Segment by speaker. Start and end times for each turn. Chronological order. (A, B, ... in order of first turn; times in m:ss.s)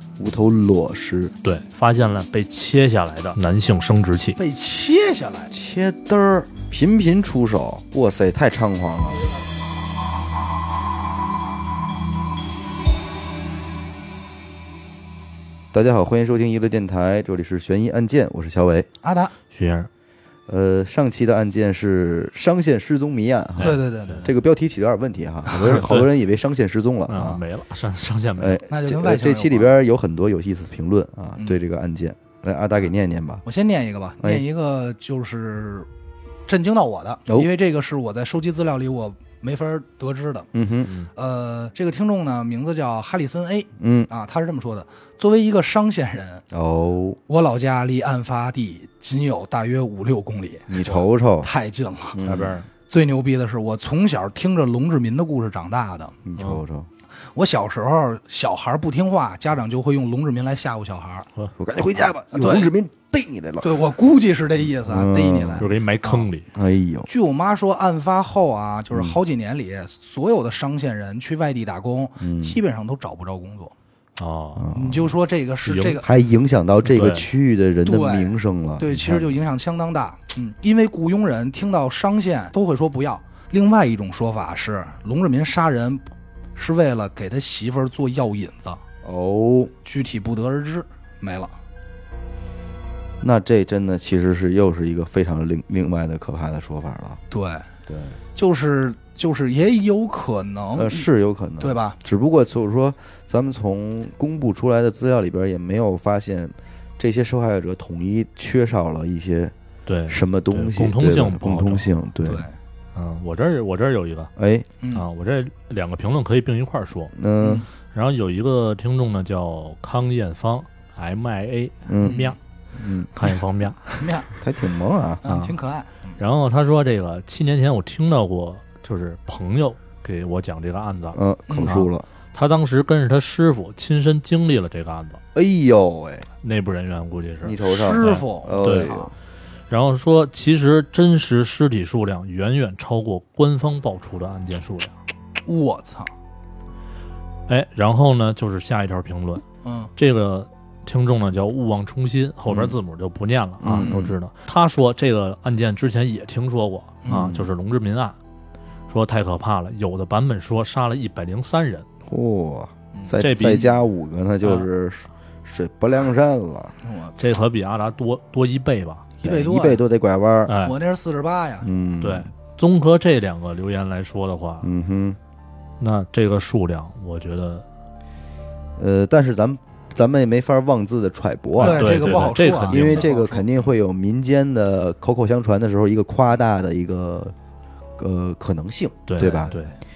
0:00.2-0:01.3 A
0:01.4-0:04.4 B
0:04.4-0:05.5 C
0:05.5-0:09.3 A
0:09.1-0:09.4 C
0:15.7-0:18.9 A
0:19.0-0:19.3 C
0:19.5-0:19.9 B
0:20.5-0:27.4 A
0:23.6-0:24.3 C
0:25.6-0:26.1 B
0:27.1-0:28.6 B
0:28.4-0:33.4 A
0:28.7-0:29.7 C
0:33.4-0:35.9 C
0:34.2-0:34.4 A
0:36.5-0:40.5 C
0:40.5-0:40.9 A
0:41.1-0:46.4 C
0:43.8-0:44.1 A
0:46.5-0:47.2 A
0:47.3-0:52.2 C
0:50.7-0:51.5 A
0:52.1-0:52.6 A
0:52.2-0:52.7 B
0:52.9-0:56.2 C
0:56.2-0:56.9 A
0:57.3-1:01.3 C
1:01.6-1:03.8 A
1:02.3-1:02.7 C
1:03.6-1:06.2 C
1:04.8-1:05.6 A
1:05.6-1:06.5 B
1:06.5-1:07.1 A
1:07.1-1:13.7 C
1:08.9-1:09.2 A
1:12.2-1:12.6 A
1:14.2-1:14.7 B
1:14.6-1:15.1 A
1:14.7-1:16.1 C
1:15.6-1:16.0 B
1:16.0-1:19.3 A
1:16.8-1:17.3 B
1:17.8-1:26.0 C
1:26.6-1:28.8 C
1:29.0-1:29.7 A
1:29.8-1:31.5 C
1:33.2-1:37.2 A
1:37.3-1:37.7 C
1:37.9-1:38.2 A
1:38.4-1:41.0 C
1:40.8-1:49.5 A
1:41.6-1:42.0 C
1:49.8-1:51.9 B
1:50.1-1:52.5 A
1:52.2-1:52.5 C
1:52.9-1:54.3 B
1:54.4-1:54.7 A
1:54.9-1:57.1 B
1:57.1-1:57.6 A
1:57.4-1:57.7 C
1:57.9-2:02.4 B
2:01.9-2:02.2 A
2:02.0-2:02.3 C
2:02.8-2:03.1 A
2:03.1-2:04.0 B
2:04.0-2:04.3 C
2:04.4-2:05.2 A
2:05.2-2:06.2 C
2:05.3-2:05.5 B
2:06.2-2:15.2 B
2:11.1-2:12.0 A
2:11.5-2:11.8 C
2:15.3-2:16.3 A
2:16.4-2:18.9 B
2:17.4-2:19.1 A
2:17.6-2:19.1 C
2:19.7-2:25.0 B
2:25.4-2:26.1 C
2:27.5-2:29.4 B
2:29.6-2:29.9 C
2:30.0-2:38.2 B
2:32.5-2:32.8 A
2:33.6-2:34.2 A
2:37.0-2:37.3 C
2:37.1-2:37.5 A
2:38.9-2:41.8 B
2:42.1-2:46.7 A
2:42.9-2:43.7 C
2:43.2-2:43.8 B
2:46.8-2:47.3 C
2:47.2-2:49.1 B
2:49.2-2:49.8 C
2:49.2-2:50.5 A
2:50.4-2:50.8 B
2:50.6-2:51.7 C
2:51.6-2:52.3 A
2:52.0-2:54.7 B
2:54.6-2:55.2 A
2:55.8-2:57.6 B
2:58.8-3:07.3 A
3:01.6-3:03.0 B
3:01.6-3:03.7 C
3:08.0-3:09.6 A
3:09.0-3:09.7 B
3:09.2-3:09.8 C